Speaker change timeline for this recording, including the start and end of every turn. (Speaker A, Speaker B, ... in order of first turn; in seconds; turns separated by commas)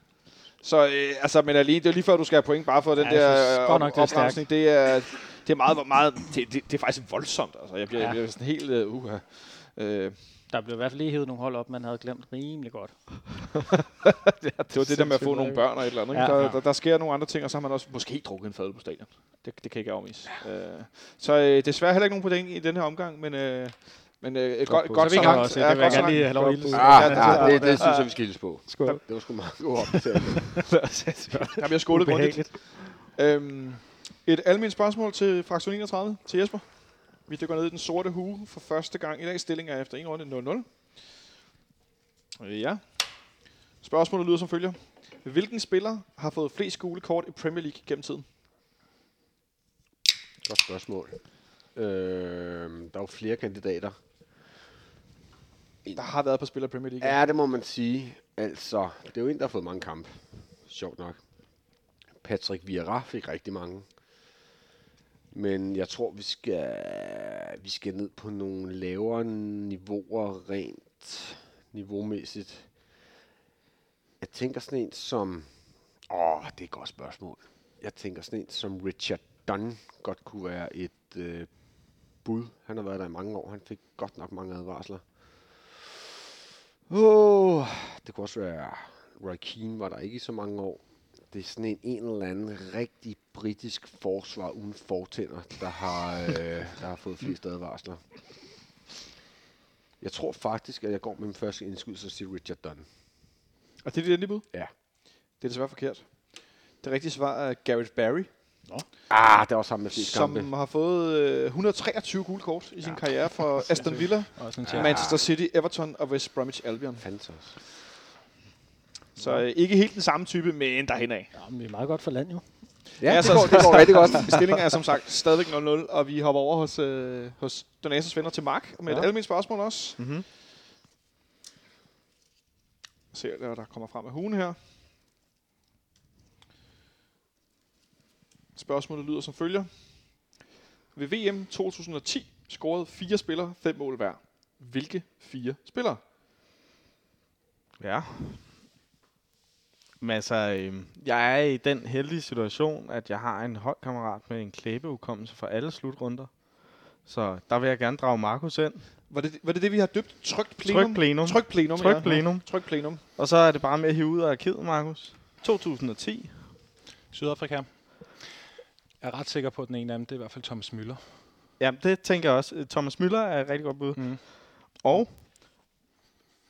Speaker A: 0.6-10.2, Speaker B: 3.0-4.5, Speaker B: 7.9-8.2, Speaker B: 10.5-13.5, Speaker C: 14.5-15.6, Speaker A: 14.7-28.2, Speaker B: 15.0-16.4, Speaker D: 16.3-16.6, Speaker C: 24.7-27.8, Speaker B: 24.9-28.1, Speaker D: 25.0-26.1, Speaker E: 26.7-30.7, Speaker B: 28.7-29.6, Speaker C: 31.1-31.5, Speaker B: 31.3-32.7, Speaker A: 31.6-40.7, Speaker A: 42.4-48.2, Speaker E: 50.4-54.0, Speaker A: 55.9-57.2, Speaker E: 57.0-61.2, Speaker E: 62.2-63.9, Speaker E: 65.3-72.8, Speaker E: 74.2-75.5, Speaker E: 76.1-85.8, Speaker E: 86.9-98.4, Speaker E: 100.0-102.8, Speaker A: 103.8-104.5, Speaker A: 105.1-108.3, Speaker E: 109.1-110.5, Speaker A: 109.9-117.0, Speaker B: 113.7-114.5, Speaker D: 114.3-115.0, Speaker E: 114.6-115.2, Speaker E: 117.0-117.6, Speaker A: 119.2-121.3, Speaker B: 121.3-124.0, Speaker E: 123.0-124.5, Speaker A: 123.0-130.0, Speaker C: 130.0-130.2, Speaker A: 133.1-134.6, Speaker A: 138.5-140.3, Speaker A: 140.9-146.0, Speaker C: 147.8-148.5, Speaker C: 150.0-158.9, Speaker A: 159.1-163.0, Speaker C: 160.6-166.4, Speaker D: 167.1-168.0, Speaker D: 169.0-171.0, Speaker C: 171.6-175.1, Speaker D: 173.9-175.0